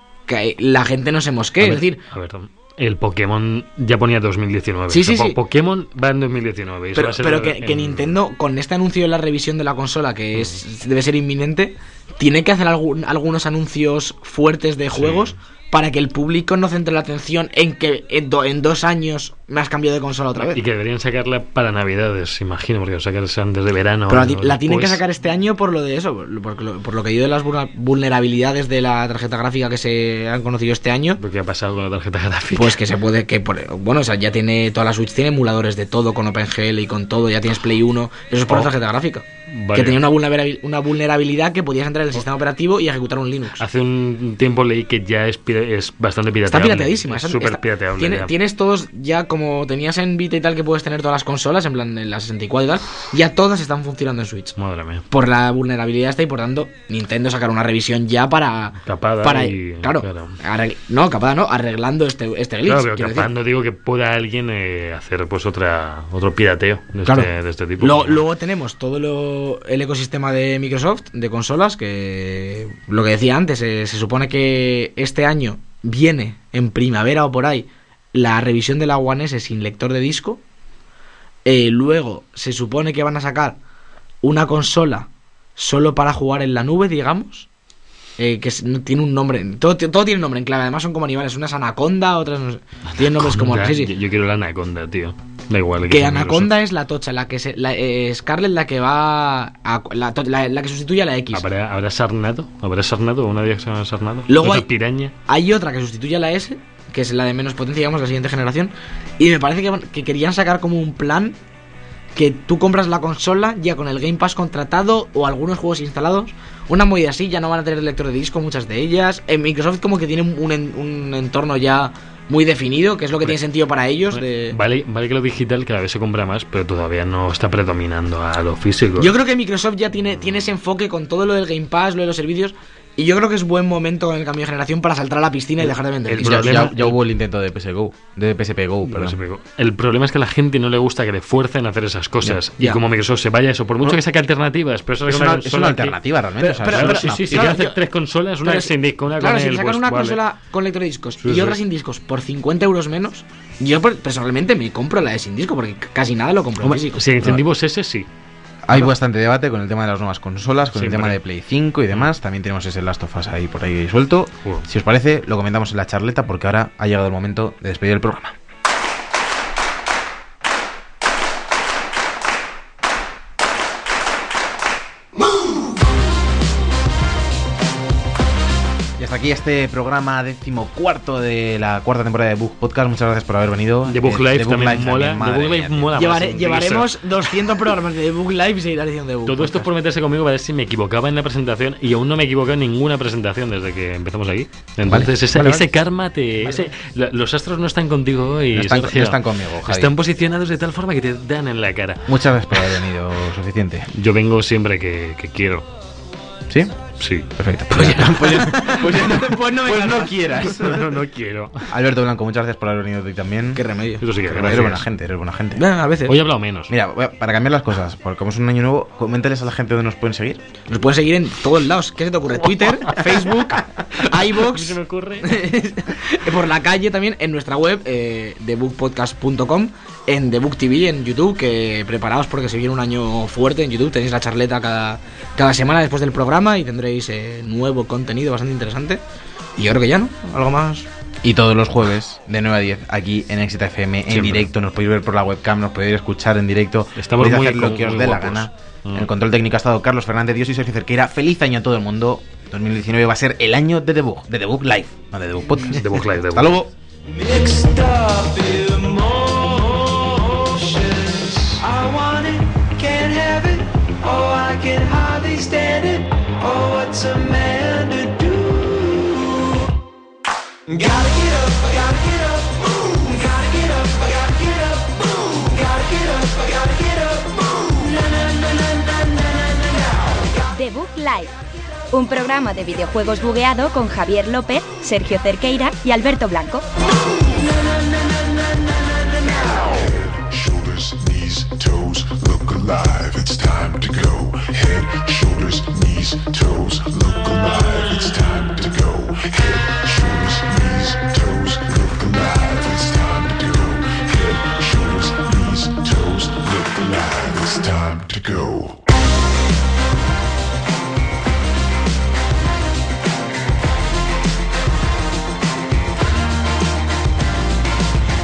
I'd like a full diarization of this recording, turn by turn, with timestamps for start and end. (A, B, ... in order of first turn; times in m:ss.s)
0:00.3-0:02.0 A
0:01.6-0:08.2 B
0:04.9-0:05.4 A
0:07.0-0:20.6 A
0:14.9-0:15.3 B
0:20.4-0:25.0 B
0:24.1-0:31.2 A
0:31.2-0:32.8 B
0:32.5-0:43.6 A
0:39.5-0:40.1 B
0:43.6-0:48.3 B
0:46.5-0:54.6 A
0:54.6-0:55.0 B
0:55.1-1:03.3 A
0:58.9-1:00.4 B
1:02.6-1:08.2 B
1:07.0-1:20.4 A
1:21.4-1:23.6 A
1:24.2-1:27.5 A
1:28.2-1:33.9 A
1:33.0-1:36.5 B
1:35.9-1:41.4 A
1:41.3-1:45.1 B
1:44.3-1:44.7 A
1:45.2-1:51.4 A
1:52.1-2:04.6 A
2:04.1-2:09.1 B
2:09.0-2:16.7 A
2:16.1-2:17.0 B
2:16.2-2:19.2 C
2:18.8-2:26.0 B
2:25.1-2:27.6 C
2:26.4-2:27.8 A
2:26.6-2:30.2 B
2:28.4-2:37.0 A
2:31.2-2:31.6 B
2:36.6-2:37.4 C
2:36.9-2:38.1 B
2:38.7-2:48.4 C
2:40.8-2:41.2 B
2:59.0-3:06.0 C
3:03.9-3:07.0 B
3:05.9-3:09.7 A
3:09.3-3:22.9 B
3:14.8-3:15.7 C
3:18.5-3:19.9 C
3:22.1-3:23.9 C
3:23.9-3:25.7 B
3:26.5-3:26.8 C
3:27.0-3:27.3 B
3:27.4-3:31.0 C
3:27.8-3:30.5 A
3:30.6-3:31.7 B
3:31.7-3:33.6 C
3:33.6-3:34.0 A
3:34.0-3:34.9 B
3:34.3-3:35.6 C
3:35.5-3:36.2 A
3:36.1-3:36.7 B
3:36.7-3:40.4 C
3:40.7-3:59.0 A
3:42.4-3:45.5 B
3:59.6-4:00.9 A
4:01.2-4:16.7 C
4:04.1-4:04.5 B
4:07.0-4:09.1 B
4:15.7-4:16.6 B
4:17.1-4:29.7 D
4:30.7-4:40.5 D
4:40.6-4:41.3 E
4:41.9-4:46.6 E
4:47.1-4:49.9 D
4:49.8-5:08.8 F